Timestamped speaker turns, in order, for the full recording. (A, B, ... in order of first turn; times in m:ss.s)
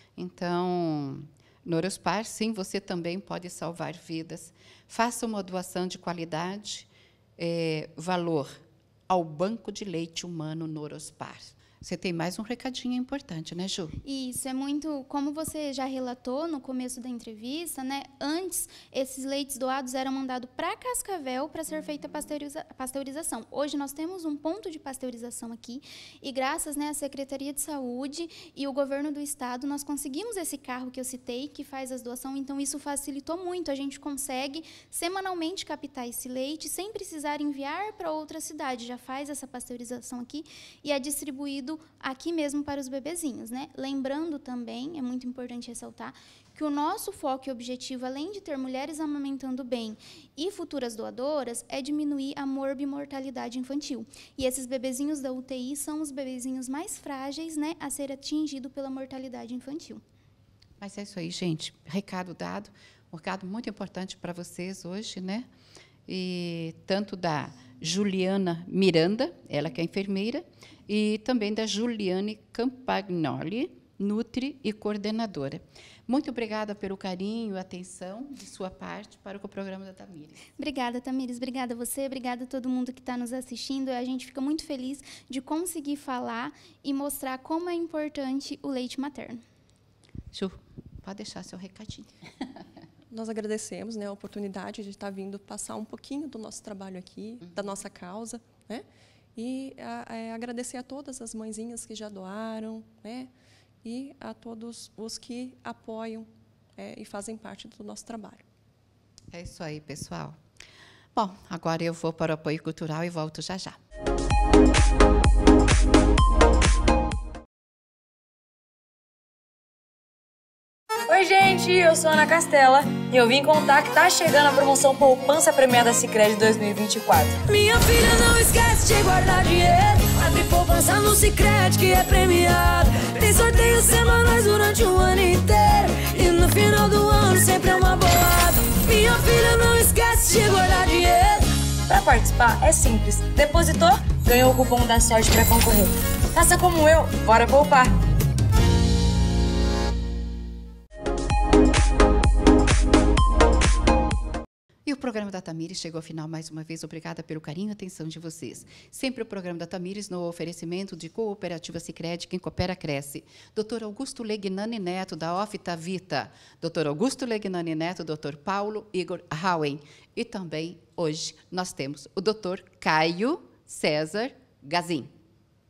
0:00.2-0:08.5 A
0:09.1-0:14.0 A
0:14.0-1:00.0 B
1:00.8-1:05.5 A
1:06.1-1:20.5 A
1:20.6-1:29.4 B
1:30.3-1:32.2 A
1:33.1-1:38.8 C
1:39.4-1:43.3 C
1:43.8-1:48.4 C
1:49.3-1:50.4 A
1:51.2-1:53.8 A
2:01.1-2:07.4 D
2:07.5-2:21.5 E
2:21.9-2:27.9 D
2:34.9-2:55.1 A